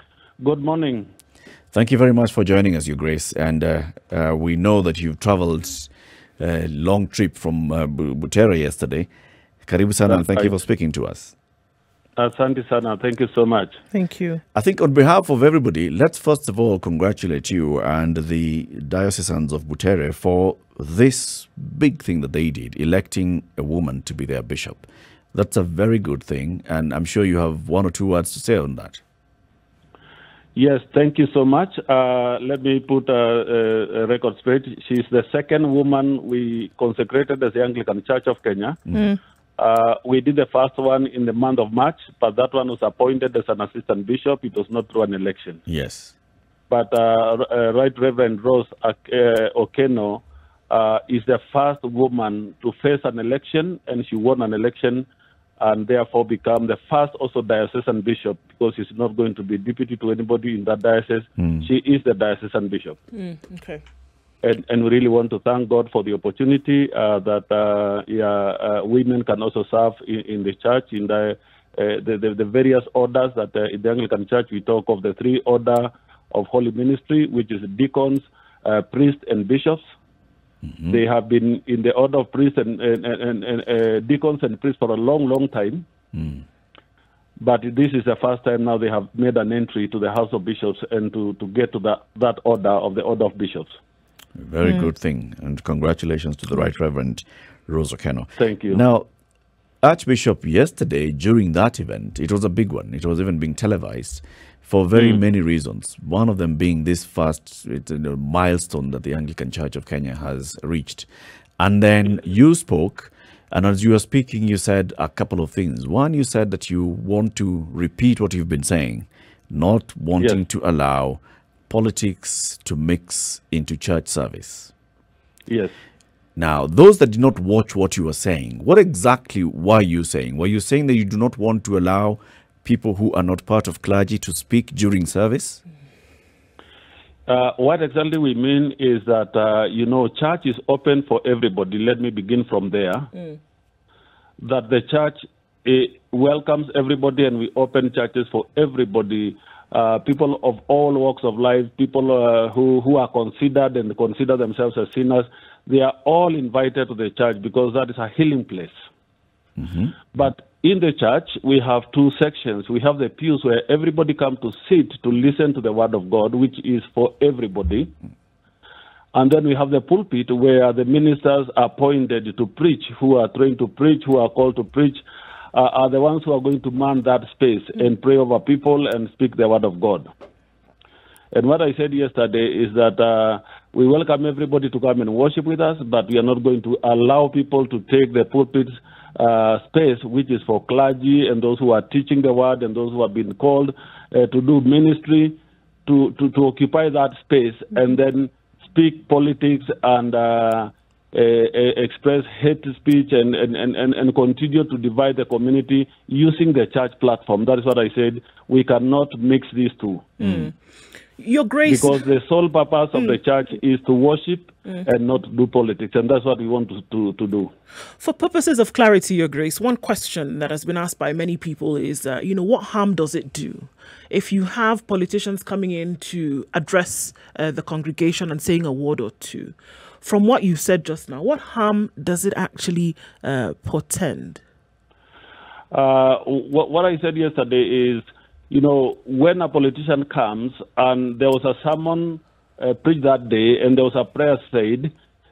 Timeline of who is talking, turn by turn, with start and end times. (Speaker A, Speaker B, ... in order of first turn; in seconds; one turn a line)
Speaker A: 0.4-1.1
Speaker B: 1.7-9.1
Speaker B: 9.7-11.3
Speaker A: 10.1-10.5
Speaker A: 12.2-13.8
Speaker C: 13.9-14.4
Speaker B: 14.5-29.0
Speaker A: 30.6-38.8
Speaker C: 38.9-39.2
Speaker A: 39.6-45.6
Speaker B: 45.7-46.1
Speaker A: 46.7-55.1
Speaker A: 55.6-63.0
Speaker C: 63.1-63.8
Speaker A: 64.4-79.8
Speaker A: 80.9-85.9
Speaker B: 86.2-86.4
Speaker A: 87.4-93.8
Speaker B: 94.4-99.1
Speaker A: 98.4-98.8
Speaker B: 99.8-111.1
Speaker A: 105.0-105.2
Speaker B: 111.6-124.7
Speaker A: 125.5-125.8
Speaker B: 126.4-135.6
Speaker A: 137.3-143.1
Speaker A: 144.4-158.7
Speaker B: 159.6-159.9
Speaker A: 160.1-167.9
Speaker A: 169.1-180.1
Speaker A: 181.3-210.2
Speaker B: 210.2-210.5
Speaker C: 210.2-210.5
Speaker C: 211.2-212.0
Speaker A: 211.7-217.5
Speaker C: 218.0-234.4
Speaker A: 235.7-244.9